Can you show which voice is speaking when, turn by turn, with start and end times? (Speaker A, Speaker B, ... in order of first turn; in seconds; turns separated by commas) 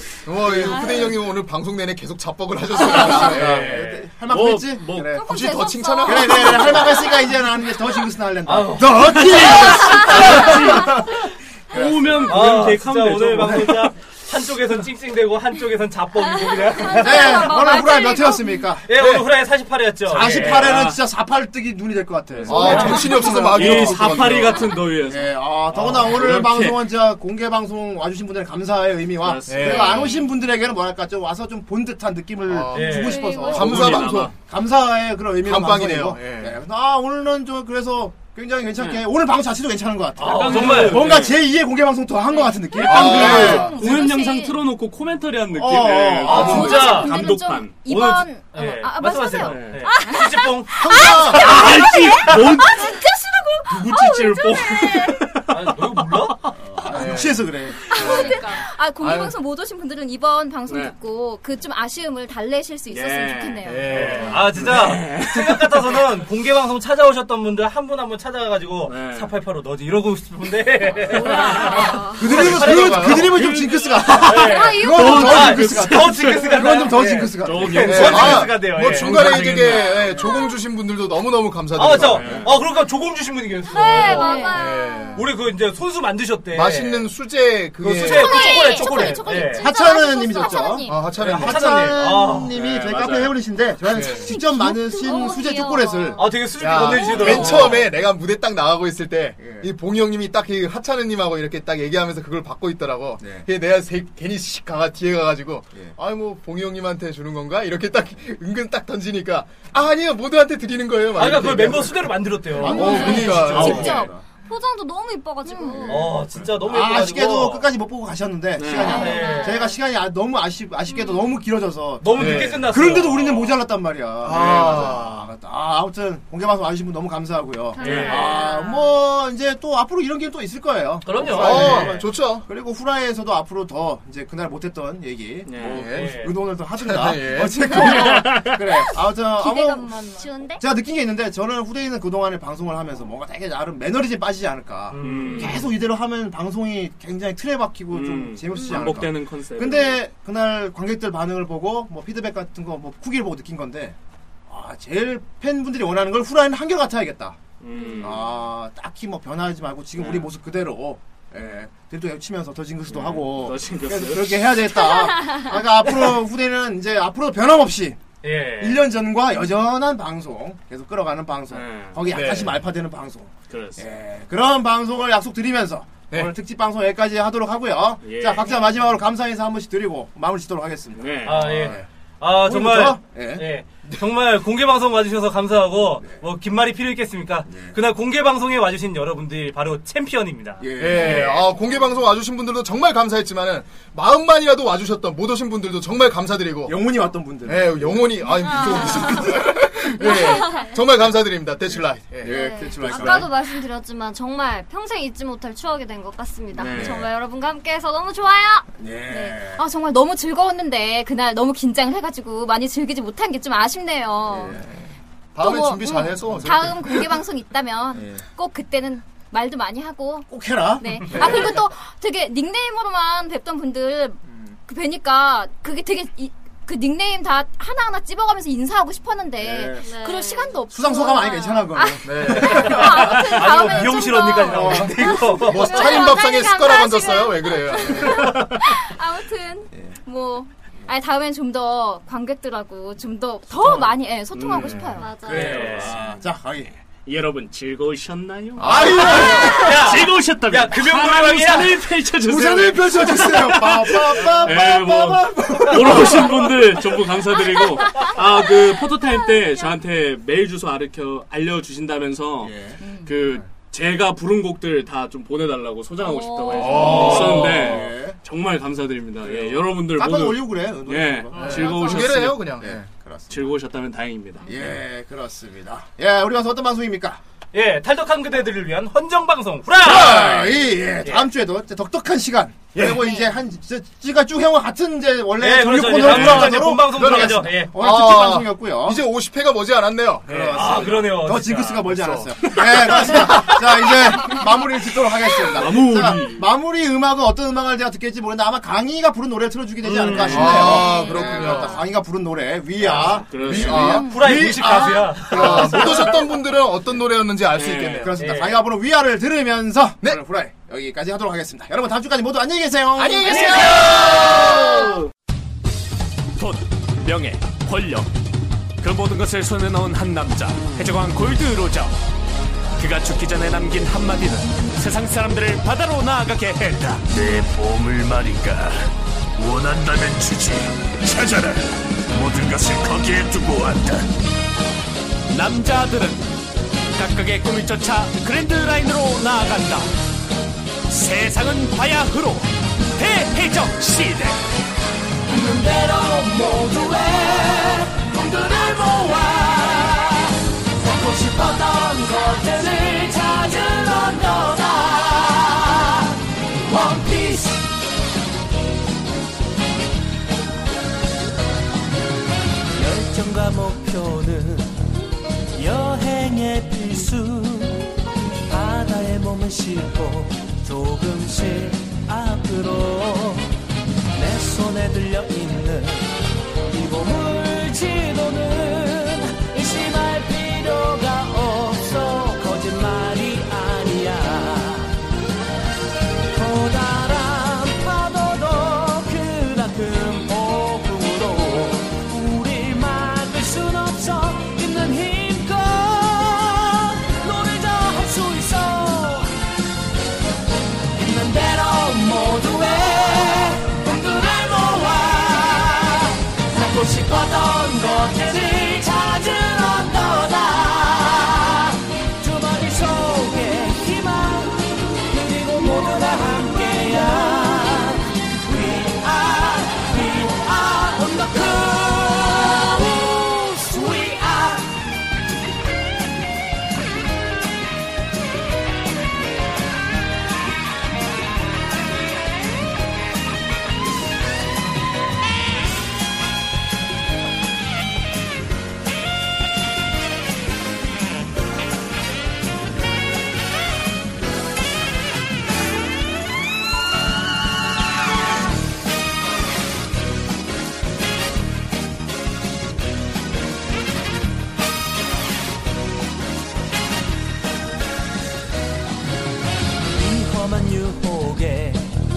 Speaker A: 0.2-3.7, Speaker B: 0.5-0.8, Speaker C: 2.9-5.2, Speaker B: 2.9-5.2, Speaker D: 3.6-4.1, Speaker A: 5.2-7.0, Speaker E: 5.2-7.3, Speaker F: 5.2-6.2, Speaker B: 6.0-11.2, Speaker D: 8.5-9.6, Speaker C: 8.9-13.9, Speaker B: 11.7-12.5, Speaker D: 12.2-17.7, Speaker F: 16.5-18.6, Speaker B: 16.9-18.8, Speaker E: 17.7-18.3, Speaker D: 18.8-20.8, Speaker A: 18.9-19.3, Speaker B: 20.1-43.9, Speaker C: 20.1-21.0, Speaker C: 22.3-26.9, Speaker A: 22.4-24.8, Speaker D: 22.6-23.0, Speaker C: 29.2-30.1, Speaker A: 29.5-30.1, Speaker A: 32.5-34.3, Speaker D: 32.7-33.3, Speaker F: 32.8-33.8, Speaker E: 33.3-33.5, Speaker C: 33.5-34.3, Speaker A: 35.4-36.6, Speaker D: 40.2-41.1, Speaker C: 40.2-41.4, Speaker E: 42.3-44.6, Speaker A: 42.8-43.9, Speaker C: 43.1-47.8, Speaker B: 45.5-47.0, Speaker D: 46.2-50.9, Speaker E: 46.3-55.2, Speaker C: 49.4-49.9, Speaker A: 50.8-51.4, Speaker C: 51.3-52.9, Speaker C: 53.7-57.1, Speaker D: 55.5-56.5, Speaker B: 56.6-57.8, Speaker A: 56.9-57.5, Speaker E: 57.9-64.1, Speaker F: 57.9-58.6, Speaker A: 59.0-59.3, Speaker C: 60.7-60.9, Speaker C: 62.9-66.0, Speaker A: 63.6-64.6, Speaker D: 63.9-73.4, Speaker C: 68.8-69.3, Speaker C: 71.1-71.8, Speaker F: 71.2-72.2, Speaker B: 72.1-78.4, Speaker A: 72.2-73.4, Speaker C: 73.3-80.2, Speaker D: 74.2-79.4, Speaker F: 74.3-75.5, Speaker A: 77.8-82.5, Speaker F: 80.2-80.5, Speaker D: 81.7-84.5, Speaker C: 81.8-82.6, Speaker F: 83.7-85.2, Speaker E: 83.7-84.7, Speaker A: 84.5-85.3, Speaker D: 85.1-87.1, Speaker A: 86.5-88.5, Speaker D: 87.8-89.7, Speaker E: 88.0-91.1, Speaker F: 88.3-90.7, Speaker B: 89.1-96.3, Speaker A: 90.8-91.9, Speaker D: 91.2-92.5, Speaker C: 92.5-93.3, Speaker A: 93.9-94.3, Speaker E: 94.0-96.2, Speaker F: 95.0-96.2, Speaker D: 96.2-97.8, Speaker A: 96.6-114.0, Speaker F: 96.8-97.5, Speaker E: 96.9-97.4, Speaker C: 97.2-97.7, Speaker B: 99.4-99.7, Speaker B: 103.2-103.5, Speaker D: 111.2-114.1, Speaker B: 112.6-114.2, Speaker E: 112.6-114.1, Speaker F: 112.7-116.1, Speaker C: 113.6-114.0, Speaker E: 115.4-115.9, Speaker D: 115.8-117.7, Speaker B: 115.9-139.9, Speaker C: 118.6-119.2, Speaker D: 118.8-119.6, Speaker F: 118.8-119.8, Speaker E: 118.9-119.6, Speaker F: 120.9-121.3, Speaker D: 122.0-123.6, Speaker A: 122.2-122.8, Speaker A: 124.2-125.3, Speaker F: 127.7-128.8, Speaker C: 127.8-128.3, Speaker E: 128.0-128.8, Speaker D: 131.0-132.0, Speaker A: 131.3-132.4, Speaker C: 135.5-135.8, Speaker A: 135.6-136.2, Speaker D: 135.9-136.3, Speaker A: 136.8-138.1, Speaker C: 137.7-138.6, Speaker F: 139.4-140.6, Speaker E: 139.4-140.6, Speaker B: 140.6-153.9, Speaker D: 144.9-145.6, Speaker C: 145.0-145.7, Speaker C: 147.9-150.0, Speaker F: 148.6-148.9, Speaker B: 154.5-157.4, Speaker C: 157.6-158.2, Speaker F: 157.7-158.2, Speaker B: 158.0-168.0, Speaker C: 160.0-160.3, Speaker C: 162.9-164.5, Speaker D: 168.2-168.8, Speaker B: 168.6-181.8, Speaker C: 171.5-172.3, Speaker A: 172.1-172.6, Speaker C: 173.5-173.9, Speaker C: 178.0-178.6, Speaker C: 180.9-181.8, Speaker D: 181.2-190.6, Speaker B: 182.4-183.5, Speaker B: 187.5-187.8, Speaker B: 190.6-191.4, Speaker A: 190.8-196.8, Speaker B: 196.7-199.3, Speaker A: 197.4-202.3, Speaker F: 198.4-199.4, Speaker F: 200.0-200.8, Speaker B: 202.2-203.3, Speaker F: 202.3-209.3, Speaker E: 202.4-203.2, Speaker C: 206.6-207.1, Speaker A: 206.6-206.9, Speaker B: 208.8-209.6, Speaker E: 209.2-214.6, Speaker B: 214.3-214.8, Speaker A: 215.3-217.0, Speaker E: 215.4-245.2, Speaker B: 217.9-218.2, Speaker B: 220.3-221.5, Speaker B: 229.4-229.9, Speaker F: 229.8-230.6, Speaker B: 230.7-235.2, Speaker A: 232.0-232.7, Speaker D: 232.4-235.8, Speaker A: 235.4-238.4, Speaker F: 235.7-237.6, Speaker C: 244.3-246.1, Speaker F: 244.9-245.9, Speaker B: 245.2-246.7, Speaker D: 245.2-245.9, Speaker C: 247.0-272.4, Speaker B: 248.6-249.7, Speaker D: 248.7-251.8, Speaker B: 252.2-256.7, Speaker B: 262.4-263.5, Speaker E: 262.8-263.1, Speaker F: 266.0-267.1, Speaker A: 266.5-267.8, Speaker B: 266.7-268.2, Speaker D: 266.8-267.5, Speaker B: 269.2-271.8, Speaker A: 271.3-272.8, Speaker F: 271.5-272.1, Speaker B: 272.5-273.5, Speaker C: 273.3-274.5, Speaker B: 274.4-277.2, Speaker D: 277.5-281.3, Speaker B: 279.8-289.0, Speaker A: 279.9-280.5, Speaker C: 282.7-283.1, Speaker D: 285.4-287.7, Speaker A: 286.0-290.8, Speaker B: 290.3-306.2, Speaker D: 290.5-291.9, Speaker A: 291.9-292.5, Speaker C: 295.4-296.5, Speaker C: 299.8-300.8, Speaker A: 300.2-301.8, Speaker E: 300.4-301.7, Speaker D: 302.8-303.2, Speaker C: 303.1-304.0, Speaker A: 303.4-304.1, Speaker D: 303.9-305.9, Speaker E: 304.1-304.9, Speaker A: 305.3-308.1, Speaker C: 307.5-308.1, Speaker B: 307.9-313.7, Speaker D: 308.2-308.6, Speaker C: 313.0-314.0, Speaker A: 313.0-314.3, Speaker E: 313.3-314.5, Speaker C: 314.5-315.0, Speaker G: 316.4-318.1, Speaker G: 318.8-321.9, Speaker G: 322.8-328.8, Speaker G: 329.4-334.1, Speaker G: 335.3-336.2, Speaker G: 336.9-339.9, Speaker G: 340.9-344.4, Speaker G: 345.3-357.7, Speaker G: 362.8-364.7, Speaker G: 365.6-367.9, Speaker G: 368.5-373.5, Speaker G: 374.1-376.2, Speaker G: 376.7-384.9, Speaker G: 386.3-399.4, Speaker G: 400.9-424.8, Speaker G: 459.9-461.9